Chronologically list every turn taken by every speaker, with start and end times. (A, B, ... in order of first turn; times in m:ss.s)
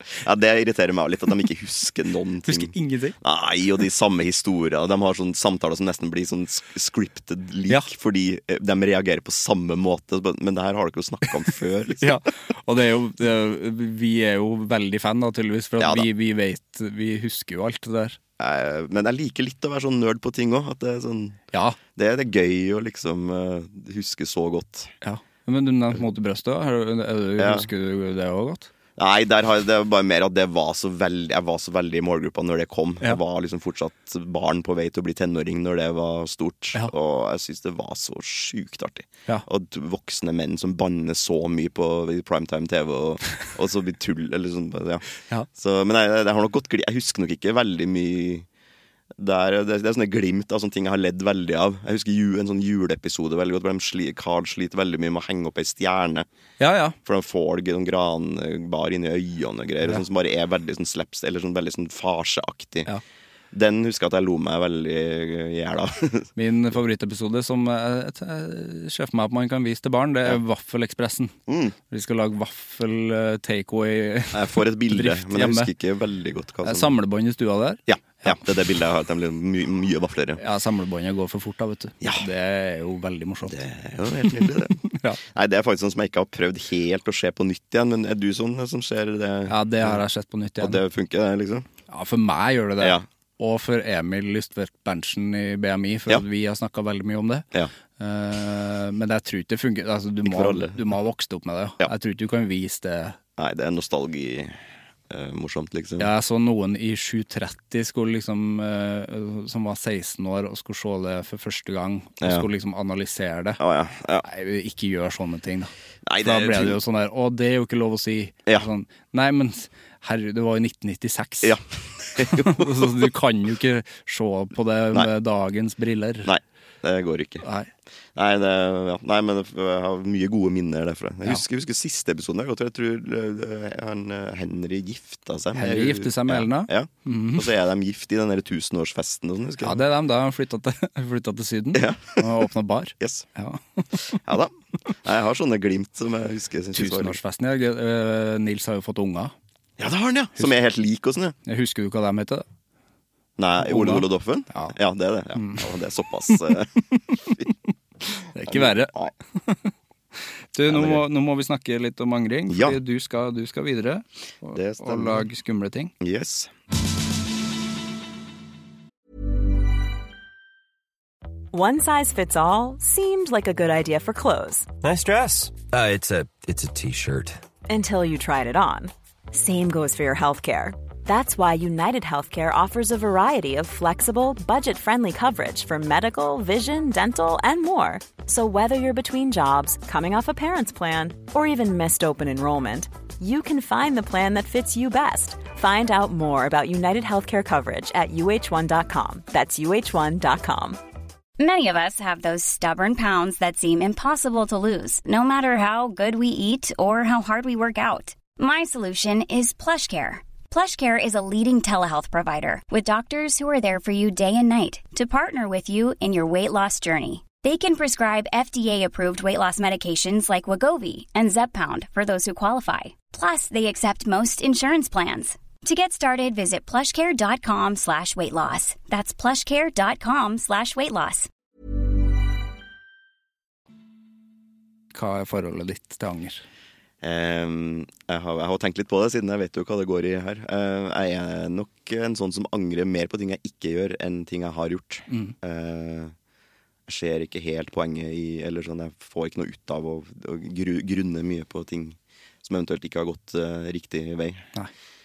0:00.1-0:12.2 A
0:02.4-0:03.2 B
0:12.0-0:18.2 B
0:15.8-0:16.1 A
0:18.4-0:21.4 A
0:21.5-0:21.8 B
0:22.0-0:24.9 A
0:25.0-0:28.7 B
0:27.4-0:27.7 A
0:29.0-0:48.4 A
0:49.2-0:56.2 A
0:56.6-0:57.0 B
0:57.0-1:02.9 A
1:03.5-1:06.3 A
1:06.4-1:11.3 B
1:11.5-1:11.7 A
1:11.9-1:15.7 B
1:14.3-1:16.9 A
1:16.6-1:18.4 B
1:17.9-1:20.4 A
1:20.4-1:23.6 B
1:22.0-1:22.2 A
1:23.4-1:30.0 A
1:24.2-1:25.2 B
1:29.5-1:30.8 B
1:30.6-1:31.7 A
1:31.9-1:43.2 B
1:40.2-1:40.8 A
1:43.4-1:46.1 A
1:46.0-1:53.6 B
1:52.2-1:52.5 A
1:53.6-1:54.2 A
1:54.2-2:01.6 B
1:56.0-1:56.8 A
2:01.4-2:03.1 A
2:02.2-2:06.3 B
2:06.2-2:07.4 A
2:07.4-2:07.7 B
2:08.1-2:19.8 A
2:15.5-2:17.5 B
2:19.6-2:24.2 B
2:21.7-2:22.5 A
2:23.0-2:23.2 A
2:24.1-2:27.2 A
2:26.7-2:29.3 B
2:29.8-2:31.4 A
2:31.4-2:32.4 B
2:33.4-2:37.4 A
2:33.6-2:34.8 B
2:35.3-2:35.7 B
2:36.9-2:37.5 B
2:38.3-2:39.7 B
2:38.5-2:39.1 A
2:40.5-2:45.9 B
2:40.7-2:41.0 A
2:42.5-2:42.8 A
2:44.5-2:45.3 A
2:46.0-2:46.5 A
2:51.5-2:54.7 C
2:54.8-2:57.4 D
2:57.7-3:20.8 C
3:21.4-3:51.3 E
3:54.9-3:56.4 B
3:57.0-4:06.1 A
4:06.9-4:14.5 A